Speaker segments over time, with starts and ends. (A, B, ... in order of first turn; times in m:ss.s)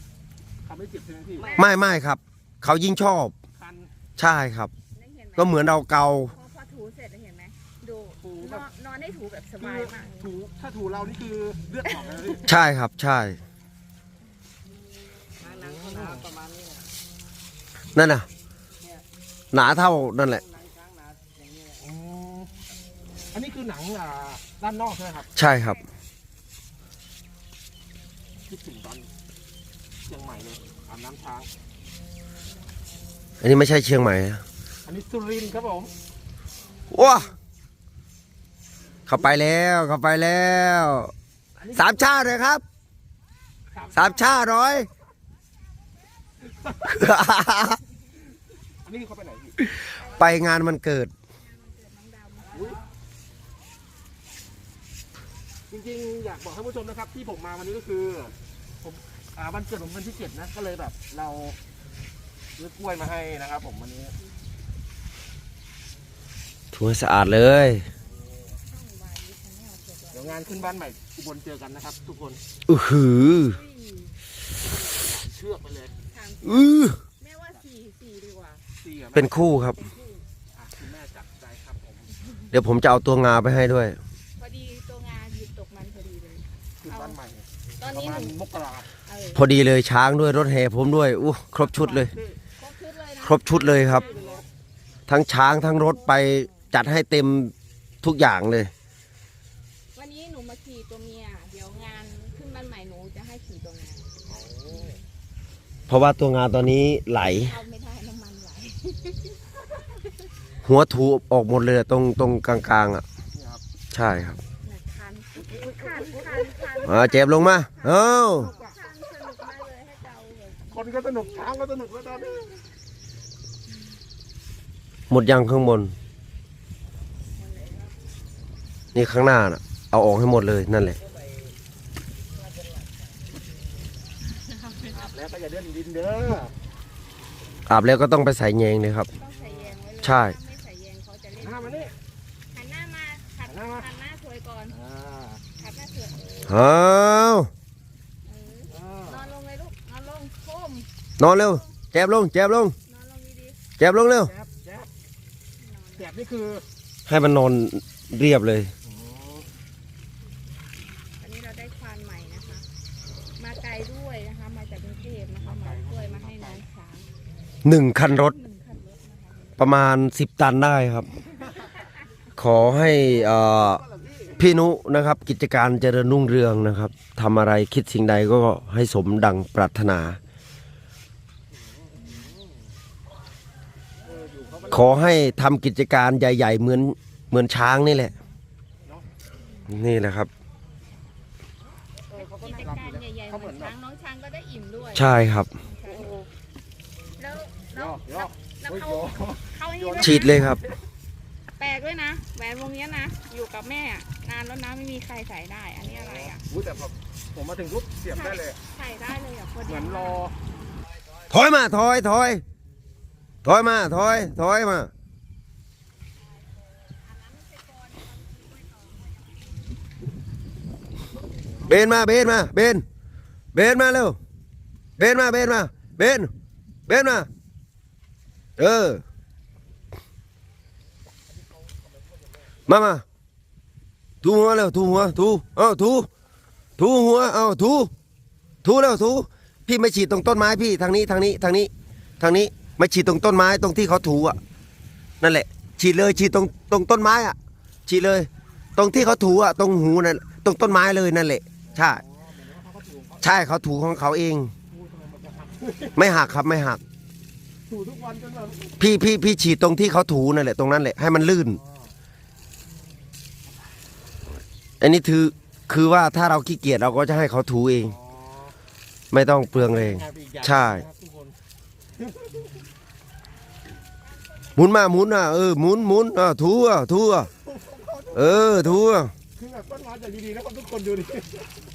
0:00.6-0:01.5 A
0:01.4-0:01.8 B
0:01.6-0:03.3 C
0:03.6-0:03.9 A
0:04.2-0:04.7 C
0:04.9-0:10.3 B
0:05.4-0:06.3 C
0:08.2-0:08.6 A
0:09.6-0:12.5 A
0:12.4-0:13.4 C
0:15.4-0:16.9 D
0:15.6-0:16.2 A
0:17.9-0:18.3 C
0:18.8-0:21.8 D
0:19.5-0:20.4 C
0:21.8-0:22.5 A
0:23.3-0:25.3 A
0:25.4-0:25.8 C
0:28.4-0:29.1 A
0:30.0-0:31.5 A
0:33.4-0:34.4 C
0:34.8-0:35.9 A
0:36.9-0:37.3 C
0:39.1-0:41.1 C
0:41.6-0:42.0 A
0:41.7-0:42.6 C
0:43.7-0:44.3 A
0:43.9-0:44.9 C
0:46.8-0:47.8 C
0:48.8-0:49.7 A
0:49.7-0:51.1 C
0:49.8-0:50.4 B
0:51.4-0:52.8 B
0:52.5-0:52.8 A
0:55.7-1:01.6 A
1:02.6-1:04.2 A
1:06.7-1:07.8 C
1:08.5-1:10.8 B
1:10.1-1:12.4 A
1:12.7-1:13.6 C
1:13.4-1:14.1 B
1:14.9-1:15.9 A
1:16.1-1:18.6 B
1:16.4-1:17.0 C
1:18.8-1:19.5 A
1:19.1-1:19.8 C
1:19.5-1:20.2 B
1:20.5-1:22.1 A
1:22.5-1:24.0 C
1:24.4-1:27.2 B
1:26.8-1:28.9 A
1:27.8-1:28.4 B
1:29.0-1:29.4 B
1:29.3-1:32.1 C
1:31.6-1:32.4 A
1:32.6-1:34.4 B
1:33.2-1:34.1 C
1:33.7-1:34.4 A
1:35.1-1:38.7 C
1:35.8-1:36.7 B
1:39.9-1:44.1 B
1:44.2-1:45.0 A
1:44.7-1:45.0 B
1:45.9-1:47.6 C
1:47.2-1:49.4 B
1:50.6-1:53.0 C
1:53.3-1:53.6 A
1:53.9-1:54.4 C
1:54.6-2:01.5 B
1:55.4-1:56.8 A
1:56.8-1:58.5 C
1:58.4-1:58.7 A
2:00.7-2:02.6 A
2:05.1-2:05.9 C
2:08.9-2:11.0 C
2:14.9-2:16.5 A
2:17.7-2:19.1 C
2:19.1-2:21.9 B
2:19.3-2:19.7 A
2:20.0-2:20.4 C
2:21.4-2:21.9 A
2:22.5-2:24.8 B
2:23.4-2:23.9 A
2:24.7-2:25.4 A
2:25.6-2:26.6 B
2:26.5-2:27.5 C
2:28.2-2:31.7 B
2:28.7-2:29.2 A
2:31.2-2:32.7 C
2:32.9-2:33.6 B
2:33.8-2:34.3 C
2:34.2-2:34.9 A
2:35.6-2:36.1 B
2:36.0-2:36.6 A
2:37.1-2:38.7 C
2:38.9-2:39.4 A
2:41.2-2:42.6 B
2:43.4-2:47.1 B
2:45.4-2:46.6 A
2:47.6-2:48.3 C
2:48.0-2:49.6 B
2:49.6-2:51.1 C
2:52.4-2:53.8 C
2:53.1-2:54.4 A
2:54.4-3:00.2 C
3:04.0-3:05.1 A
3:04.7-3:08.1 C
3:09.7-3:10.3 C
3:12.1-3:16.1 B
3:12.1-3:13.7 A
3:14.9-3:15.5 C
3:15.9-3:16.2 A
3:17.2-3:20.5 B
3:17.7-3:20.7 A
3:20.0-3:20.6 C
3:21.6-3:26.4 B
3:25.8-3:28.6 A
3:28.1-3:30.2 B
3:29.7-3:30.3 A
3:31.3-3:32.4 C
3:33.4-3:34.9 C
3:36.8-3:39.0 B
3:41.6-3:42.8 C
3:43.5-3:44.2 C
3:45.0-3:46.3 C
3:46.9-3:47.3 C
3:48.6-3:49.0 C
3:52.7-3:53.0 C
3:54.2-3:56.1 C
3:56.8-3:57.9 C
3:58.6-4:04.4 C
4:05.2-4:07.4 C
4:07.9-4:12.0 C
4:11.6-4:13.4 A
4:13.2-4:14.5 C
4:14.7-4:16.0 A
4:16.0-4:16.8 C
4:17.7-4:18.8 A
4:18.8-4:21.6 C
4:21.5-4:21.9 A
4:24.8-4:27.9 C
4:27.8-4:28.5 A
4:29.1-4:30.8 C
4:29.5-4:31.4 A
4:32.0-4:32.4 A
4:34.6-4:37.3 C
4:37.4-4:38.8 A
4:38.1-4:39.1 C
4:39.4-4:41.4 A